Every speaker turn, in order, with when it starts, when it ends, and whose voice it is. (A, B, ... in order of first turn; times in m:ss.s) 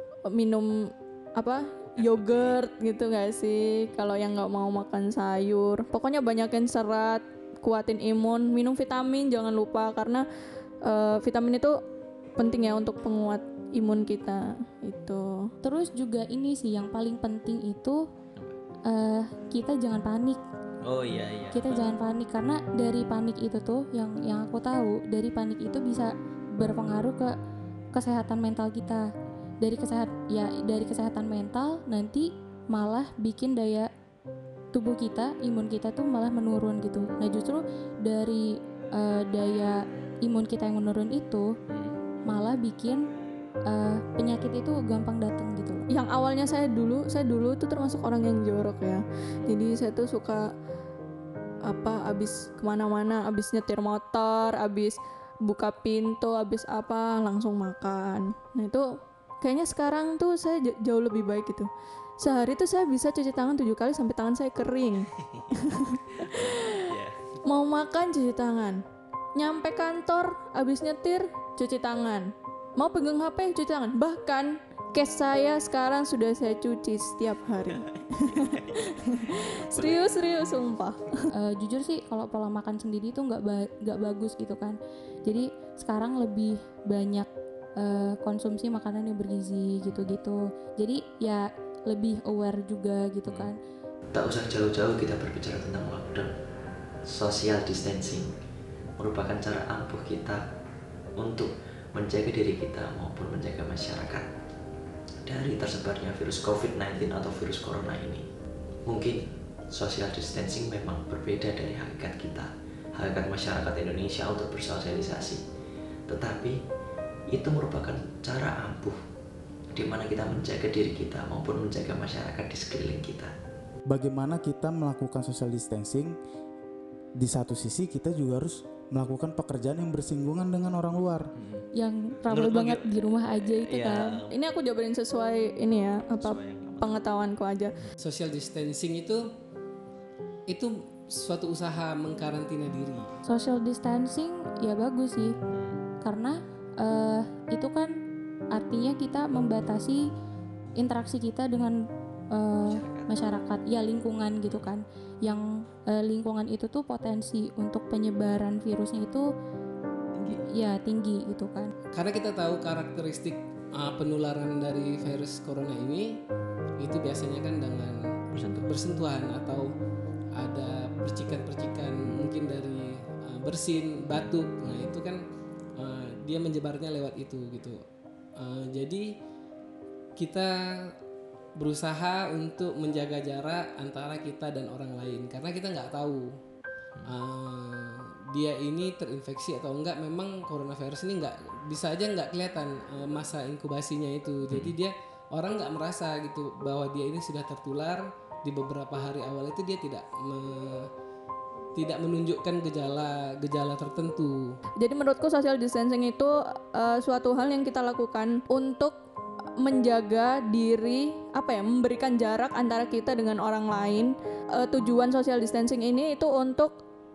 0:00.3-0:10.2 A
0:10.8-0:11.8 A
0:12.4-0:15.5 A
0:15.6-0:18.0 B
0:18.9-0:20.4 B
0:21.5-0:27.3 B
0:27.9-0:29.1 B
0:29.6-0:33.9 B
0:34.7-0:41.5 B
0:42.3-0:43.1 B
0:43.7-0:45.8 B
0:45.9-0:50.5 A
0:51.6-0:58.9 A
0:59.4-1:01.7 A
1:02.2-1:05.1 A
1:05.6-1:06.8 A
1:06.5-1:07.2 C
1:07.5-1:08.8 A
1:09.4-1:21.3 A
1:21.3-1:27.3 B
1:27.8-1:33.6 B
1:33.3-1:33.5 C
1:34.1-1:36.3 C
1:37.1-1:38.3 C
1:39.0-1:40.4 C
1:41.2-1:44.3 C
1:45.3-1:48.2 C
1:48.9-1:49.2 C
1:49.7-1:55.4 C
1:56.1-1:56.5 C
1:57.3-1:59.0 C
1:59.7-2:03.3 C
2:03.9-2:06.2 D
2:07.2-2:11.3 D
2:11.8-2:14.2 B
2:14.3-2:17.8 A
2:18.0-2:19.2 E
2:20.5-2:23.1 E
2:23.3-2:25.3 B
2:26.0-2:27.9 B
2:28.5-2:30.1 B
2:30.8-2:31.8 B
2:32.3-2:39.3 B
2:32.7-2:33.1 C
2:40.1-2:40.4 C
2:40.3-2:41.7 B
2:42.0-2:46.1 E
2:46.8-2:48.0 E
2:48.3-2:48.7 C
2:48.7-2:49.7 E
2:50.4-2:55.2 E
2:55.8-2:57.8 E
2:58.4-2:59.1 E
3:00.2-3:00.5 E
3:01.6-3:06.2 E
3:07.0-3:20.8 E
3:21.8-3:24.6 E
3:24.8-3:29.0 A
3:29.6-3:36.8 A